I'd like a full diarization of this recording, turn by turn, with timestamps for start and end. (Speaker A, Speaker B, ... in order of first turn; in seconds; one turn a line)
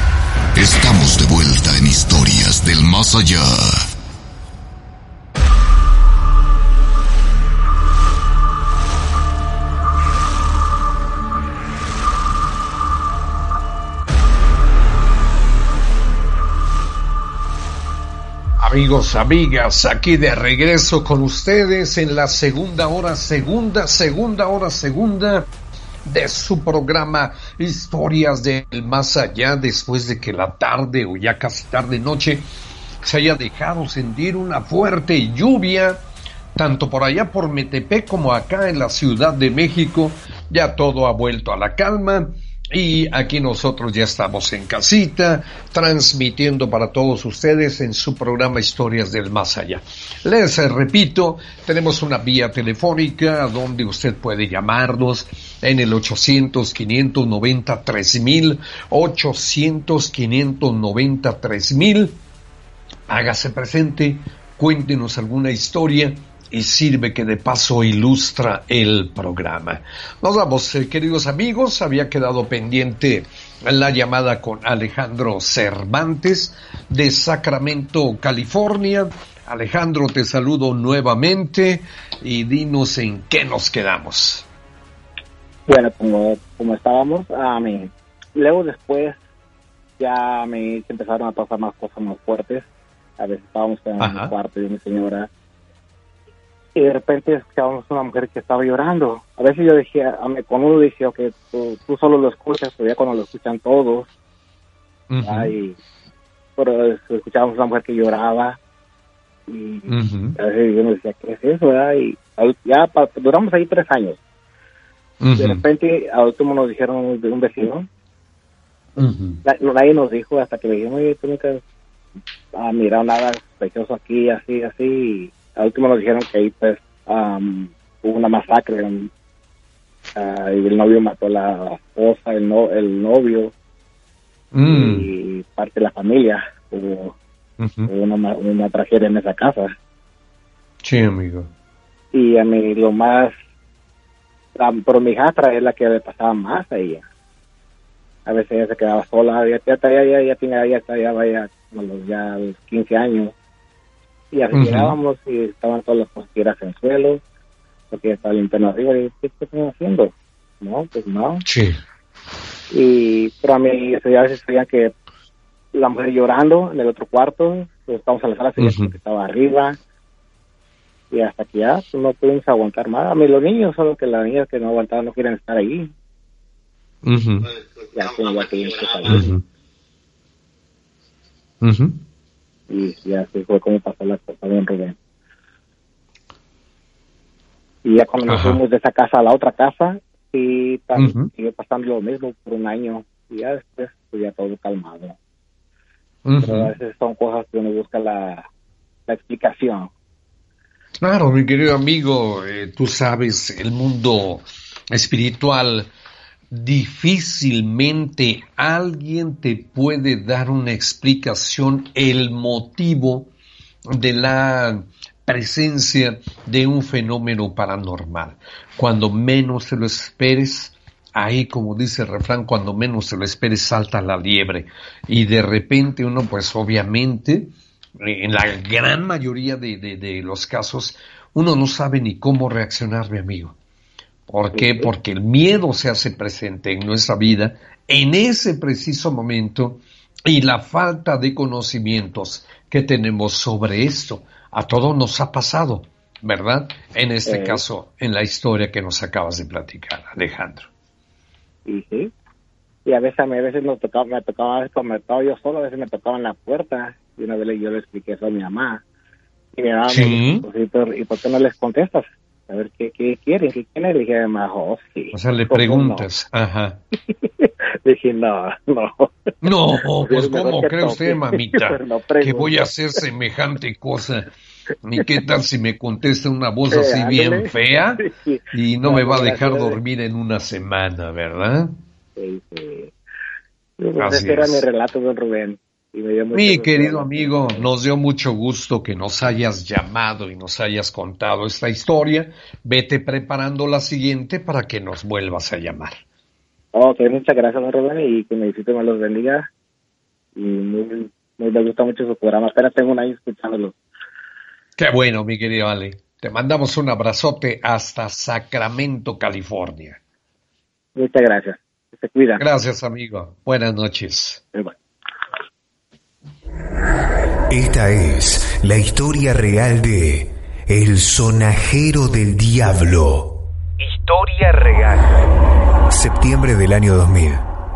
Speaker A: 0.5-3.8
Speaker B: 18.6-25.5
Speaker B: 26.0-32.5
Speaker B: 33.0-36.0
Speaker B: 36.5-62.2
Speaker B: 63.1-84.5
Speaker C: 85.7-89.2
Speaker C: 90.0-92.7
Speaker C: 93.2-95.3
Speaker B: 94.0-94.3
Speaker C: 96.7-104.1
Speaker B: 105.1-105.5
Speaker C: 105.2-105.8
Speaker C: 106.6-108.6
Speaker C: 109.5-114.2
Speaker B: 109.9-110.4
Speaker B: 115.2-115.6
Speaker C: 115.4-117.8
Speaker B: 119.0-119.4
Speaker C: 119.4-121.6
Speaker C: 122.5-129.1
Speaker C: 130.1-133.5
Speaker B: 134.5-135.1
Speaker C: 134.6-137.2
Speaker B: 137.6-137.9
Speaker C: 137.9-139.7
Speaker B: 140.8-141.5
Speaker C: 142.1-143.3
Speaker C: 144.6-147.0
Speaker C: 148.2-153.3
Speaker C: 154.3-157.2
Speaker B: 154.5-154.9
Speaker C: 157.9-161.4
Speaker B: 161.4-161.8
Speaker C: 162.7-164.9
Speaker C: 165.7-169.8
Speaker B: 168.6-168.9
Speaker C: 171.1-175.9
Speaker B: 177.0-177.5
Speaker C: 177.9-179.3
Speaker B: 179.1-179.4
Speaker B: 181.6-182.0
Speaker C: 182.7-184.9
Speaker C: 187.8-195.2
Speaker B: 188.3-188.6
Speaker B: 191.0-191.3
Speaker B: 196.2-196.7
Speaker C: 196.4-198.4
Speaker C: 199.1-199.9
Speaker B: 201.0-205.9
Speaker B: 206.5-213.3
Speaker B: 213.9-233.6
Speaker B: 234.3-250.7
Speaker C: 234.5-234.9
Speaker C: 247.2-247.6
Speaker C: 251.7-252.1
Speaker C: 252.8-258.8
Speaker C: 259.6-266.0
Speaker B: 259.9-260.5
Speaker B: 265.1-266.8
Speaker C: 267.2-269.3
Speaker B: 269.4-274.3
Speaker C: 270.0-272.6
Speaker B: 274.8-281.8
Speaker C: 276.7-279.8
Speaker C: 282.1-282.9
Speaker C: 283.8-287.7
Speaker B: 284.0-284.6
Speaker B: 286.3-296.0
Speaker C: 296.7-299.5
Speaker C: 300.4-303.7
Speaker B: 304.8-310.0
Speaker C: 310.9-312.4
Speaker B: 312.4-314.4
Speaker D: 317.5-325.1
Speaker D: 325.9-327.4